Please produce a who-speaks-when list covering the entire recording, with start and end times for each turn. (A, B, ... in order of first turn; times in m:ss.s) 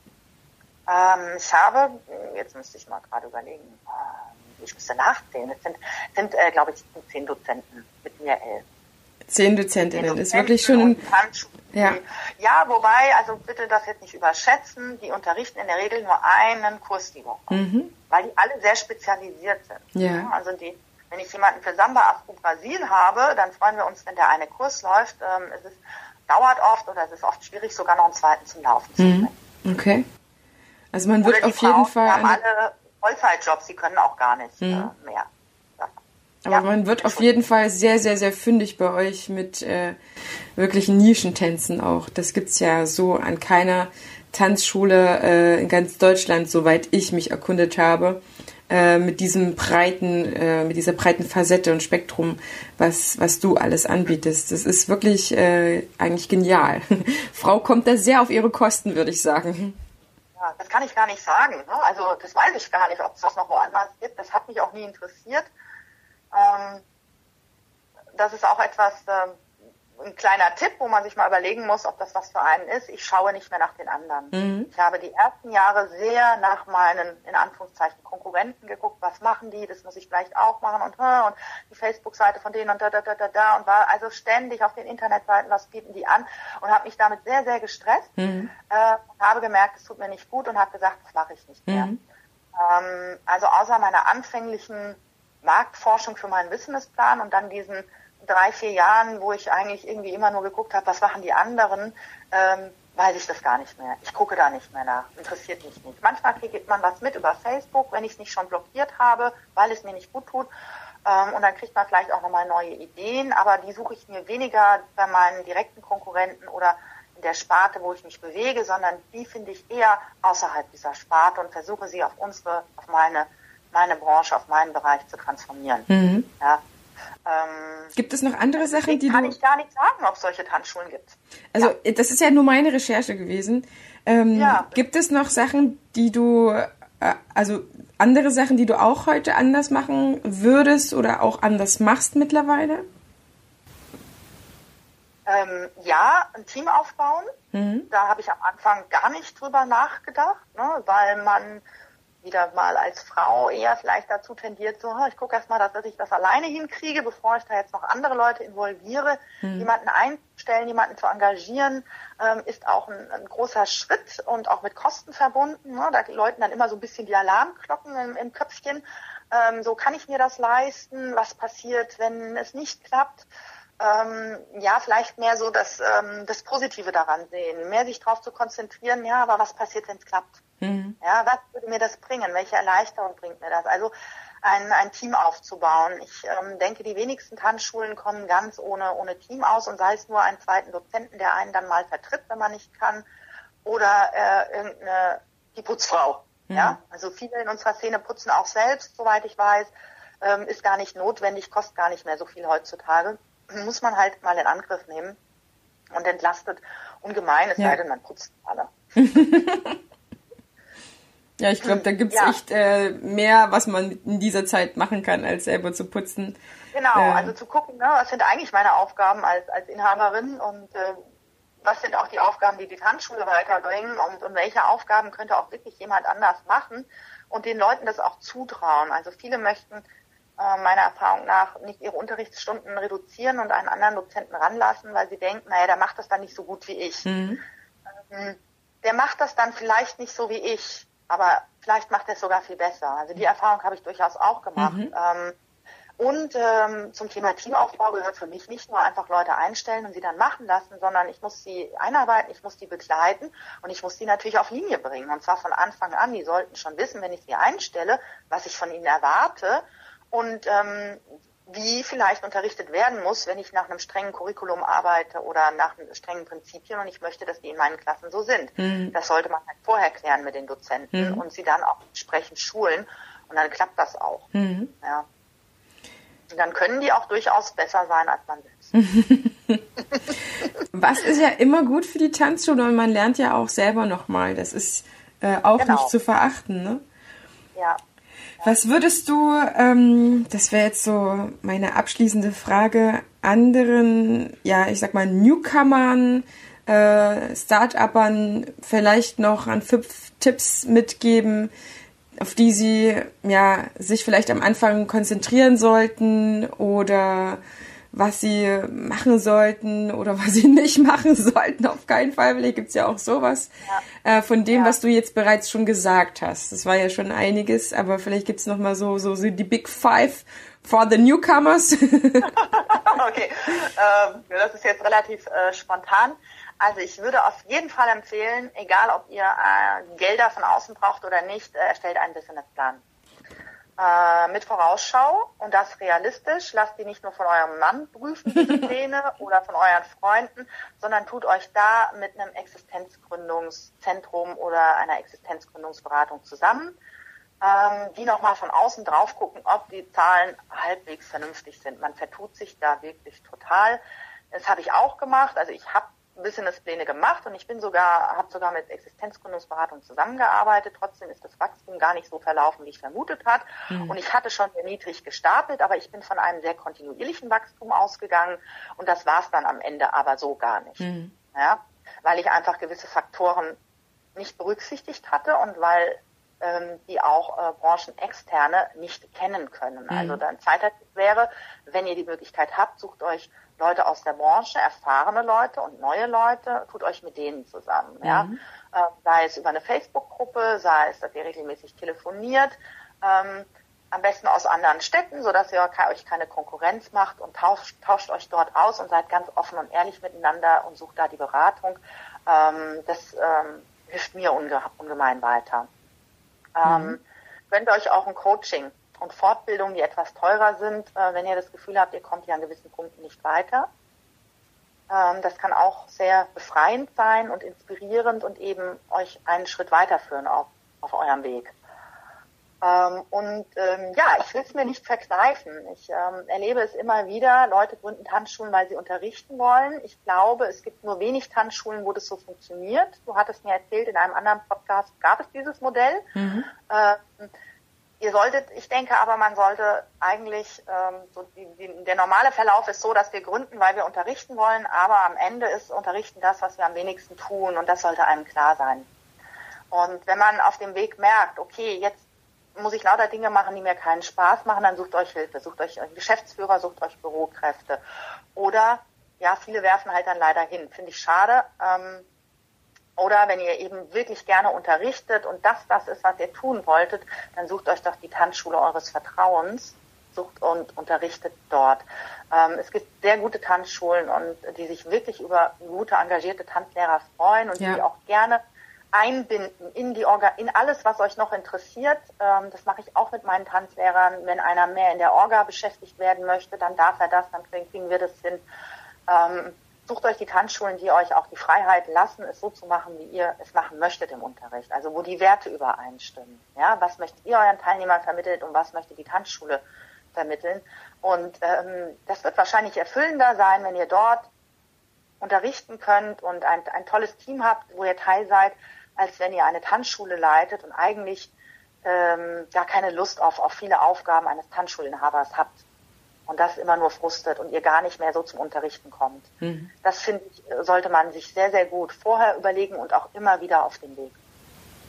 0:00.9-0:08.6 A
0:09.3-0:11.0 B
0:10.0-0:29.4 A
0:17.5-0:17.9 B
0:20.0-0:20.3 B
0:29.0-0:30.0 B
0:30.9-0:32.4 B
0:31.2-0:37.3 A
0:34.6-0:34.9 B
0:36.4-0:40.0 B
0:40.6-0:59.8 B
1:00.4-1:05.5 A
1:06.3-1:06.8 A
1:08.2-1:28.1 A
1:14.3-1:14.7 B
1:28.2-1:28.5 B
1:28.7-1:31.9 A
1:31.7-1:32.0 B
1:32.6-1:50.5 A
1:51.0-2:05.9 A
2:05.9-2:06.3 B
2:07.3-2:07.9 A
2:08.0-2:09.4 B
2:08.6-2:11.7 A
2:11.5-2:22.8 B
2:14.3-2:14.8 A
2:25.3-2:27.3 A
2:27.5-2:27.9 B
2:27.9-2:31.6 A
2:32.2-2:53.3 A
2:39.4-2:39.7 B
2:53.8-3:00.4 A
3:00.6-3:01.0 B
3:01.0-3:13.0 A
3:13.6-3:25.2 A
3:16.5-3:16.8 B
3:25.9-3:28.7 A
3:29.0-3:29.8 B
3:31.4-3:36.4 B
3:31.6-3:32.4 A
3:36.7-3:41.0 A
3:36.9-3:37.3 B
3:41.6-3:49.8 A
3:50.4-3:57.1 A
3:57.0-3:57.4 B
3:58.1-4:05.4 A
4:04.6-4:04.9 B
4:06.0-4:34.3 A
4:28.6-4:29.0 B
4:30.9-4:31.2 B
4:34.3-4:34.7 B
4:36.3-4:38.8 A
4:38.8-4:39.6 B
4:40.7-4:46.8 B
4:45.6-4:45.9 A
4:47.6-4:47.8 A
4:48.4-5:01.5 B
5:02.2-5:07.4 B
5:07.9-5:13.5 B
5:14.0-5:22.4 B
5:14.5-5:14.8 A
5:22.3-5:32.8 A
5:33.8-5:46.8 A
5:47.4-6:13.6 A
6:03.7-6:04.0 B
6:10.8-6:11.1 B
6:14.2-6:45.7 A
6:19.9-6:20.2 B
6:28.0-6:28.4 B
6:46.6-6:53.7 A
6:46.6-6:47.0 B
6:54.9-7:01.5 A
7:02.6-7:16.1 A
7:16.2-7:16.5 B
7:16.7-7:17.3 A
7:18.0-7:28.9 A
7:29.7-7:32.0 A
7:32.6-7:37.8 A
7:38.4-7:42.1 A
7:43.0-7:58.4 A
7:58.9-8:08.4 A
8:09.1-8:19.6 A
8:20.1-8:24.3 A
8:25.2-8:31.3 A
8:31.8-8:35.6 A
8:36.3-8:39.3 A
8:39.4-8:39.7 B
8:39.8-8:44.2 A